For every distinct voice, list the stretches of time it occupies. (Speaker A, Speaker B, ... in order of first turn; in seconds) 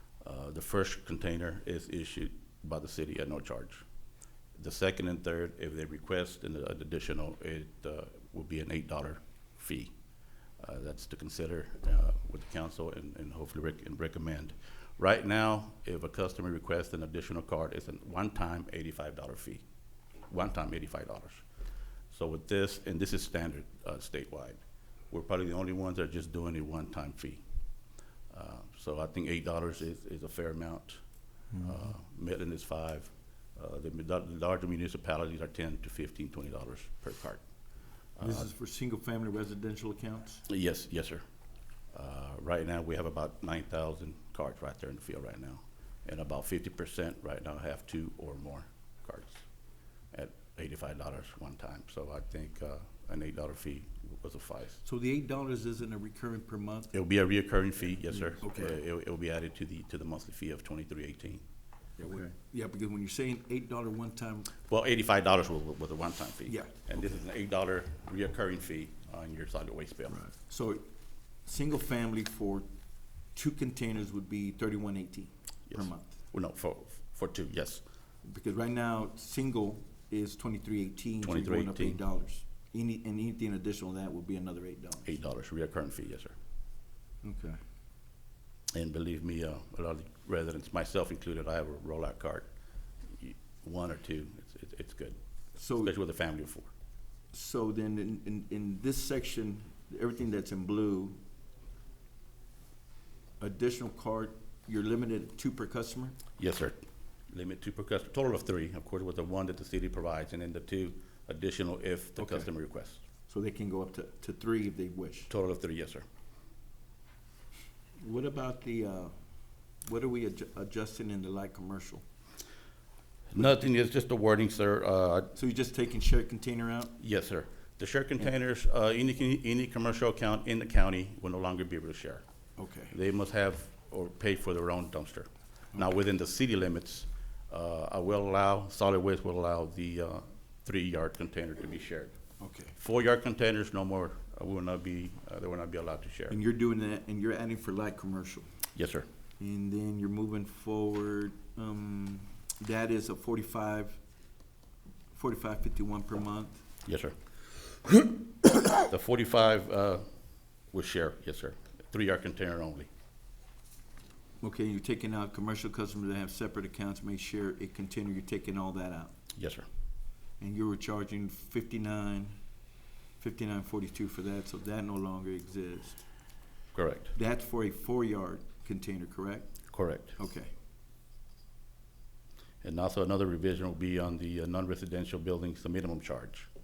Speaker A: 0.2-3.8, 4.5-9.9, 10.6-19.6, 20.3-21.4, 22.1-24.6, 25.1-27.4, 28.3-31.0, 31.6-37.4, 38.2-38.5, 40.5-41.2, 41.9-49.4, 50.1-54.8, 56.9-61.4, 64.7-70.2, 75.7-77.8, 81.2-82.0, 85.0-86.3, 88.7-92.5, 93.2-95.2, 95.7-96.7, 106.4-113.0, 115.3-116.0, 123.3-125.3, 127.0-132.2, 132.9-142.1, 142.8-146.4, 148.7-149.1, 156.8-157.2, 158.8-160.1, 160.7-162.9, 169.3-169.7, 176.7-177.1, 179.7-180.1, 182.6-186.5
Speaker B: 38.2-40.4, 54.8-56.9, 58.2-58.8, 62.0-64.5, 66.5-66.7, 70.2-70.8, 71.4-72.7, 73.3-76.1, 78.2-85.1, 87.2-87.6, 95.5-95.9, 97.3-101.2, 103.4-106.2, 112.2-112.5, 113.3-115.3, 118.0-119.1, 119.8-122.0, 125.3-127.0, 132.6-132.9, 142.4-142.7, 146.3-148.5, 149.4-154.0, 155.1-156.6, 164.4-169.1, 170.4-172.3, 173.2-176.0, 177.1-179.6, 180.2-180.5